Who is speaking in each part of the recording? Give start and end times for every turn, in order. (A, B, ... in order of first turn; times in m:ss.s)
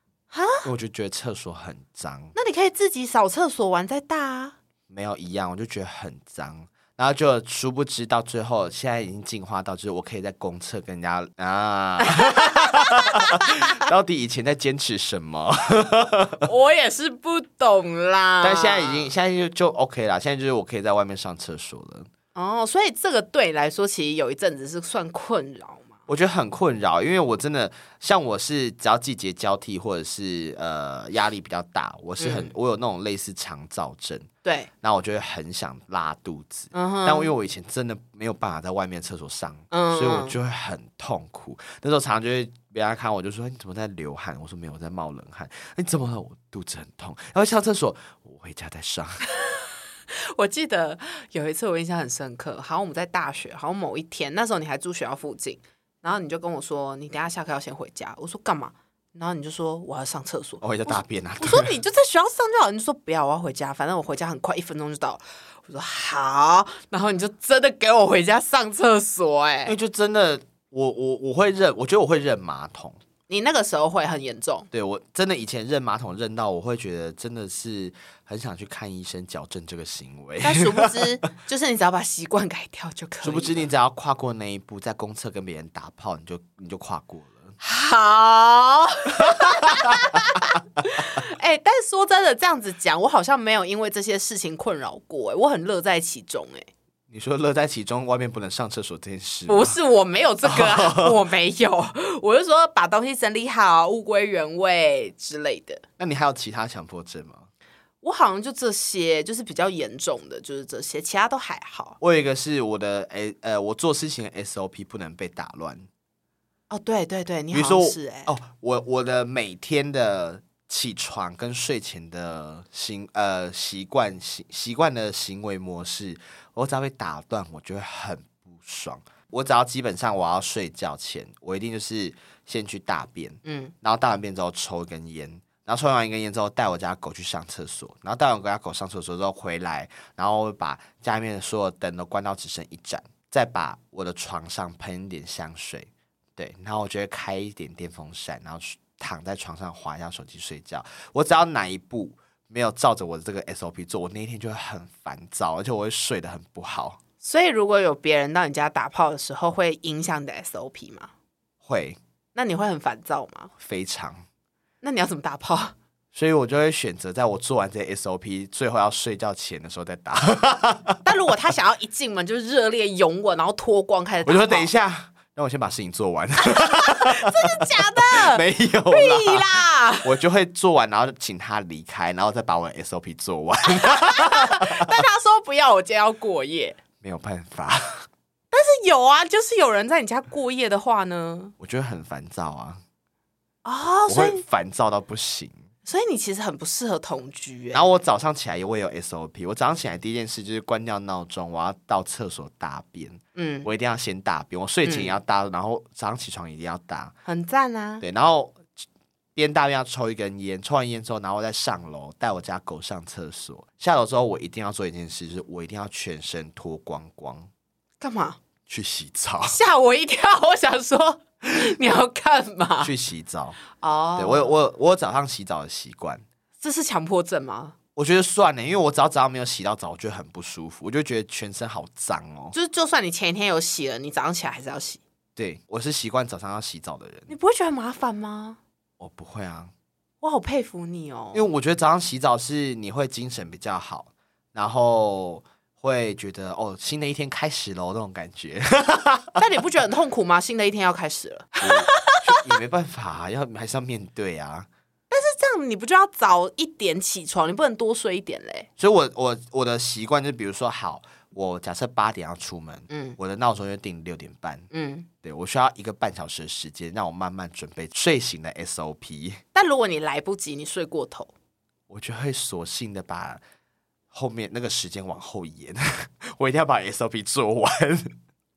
0:00.3-0:00.7 A
0:00.6-0:02.3 B
0:02.4-0:04.6 A
0:04.9-0:16.5 B
0:12.2-0:13.5 A
0:16.4-0:19.1 A
0:18.4-0:22.1 B
0:22.4-0:26.0 A
0:26.1-0:34.3 B
0:32.2-0:32.5 A
0:34.4-0:34.7 A
0:34.8-0:49.2 B
0:36.7-0:37.3 A
0:39.7-0:40.4 A
0:49.4-1:09.7 A
1:00.6-1:01.8 B
1:09.7-1:13.0 B
1:13.3-1:14.7 A
1:14.7-1:21.0 B
1:20.4-1:23.7 A
1:23.2-1:27.6 B
1:27.6-1:36.7 A
1:29.2-1:30.4 B
1:37.1-1:39.8 B
1:39.5-1:45.8 A
1:40.4-1:41.2 B
1:46.0-1:47.5 B
1:48.0-1:52.0 A
1:52.0-1:55.9 B
1:56.7-1:58.3 A
1:57.5-2:37.0 B
2:13.4-2:13.7 A
2:37.2-2:41.1 A
2:41.6-2:42.0 B
2:42.4-2:43.5 A
2:43.6-2:44.2 B
2:44.8-2:45.8 A
2:46.1-2:51.0 B
2:51.0-2:54.7 A
2:54.2-3:05.0 B
2:56.5-3:00.1 A
3:03.7-3:06.8 A
3:07.0-3:08.1 B
3:08.5-3:11.5 A
3:11.6-3:12.8 B
3:13.6-3:14.4 A
3:14.1-3:15.6 B
3:15.8-3:17.9 A
3:17.7-3:27.1 B
3:23.4-3:23.7 A
3:24.8-3:25.2 A
3:27.3-3:28.0 A
3:28.0-3:28.8 B
3:29.4-3:37.5 B
3:38.0-3:38.4 A
3:38.7-3:39.6 B
3:39.5-3:42.9 A
3:42.8-3:43.6 B
3:43.7-3:44.6 A
3:44.2-3:46.2 B
3:46.6-3:47.8 A
3:48.0-3:52.6 B
3:52.5-3:55.0 A
3:55.4-3:57.3 B
3:57.3-3:58.6 A
3:59.0-3:59.7 B
4:00.2-4:01.5 A
4:01.3-4:09.4 B
4:09.4-4:12.2 A
4:11.6-4:14.7 B
4:15.1-4:18.7 A
4:18.8-4:24.7 B
4:22.9-4:23.2 A
4:24.7-4:25.1 A
4:25.2-4:29.4 B
4:29.5-4:31.3 A
4:31.9-4:33.4 B
4:34.1-4:38.1 B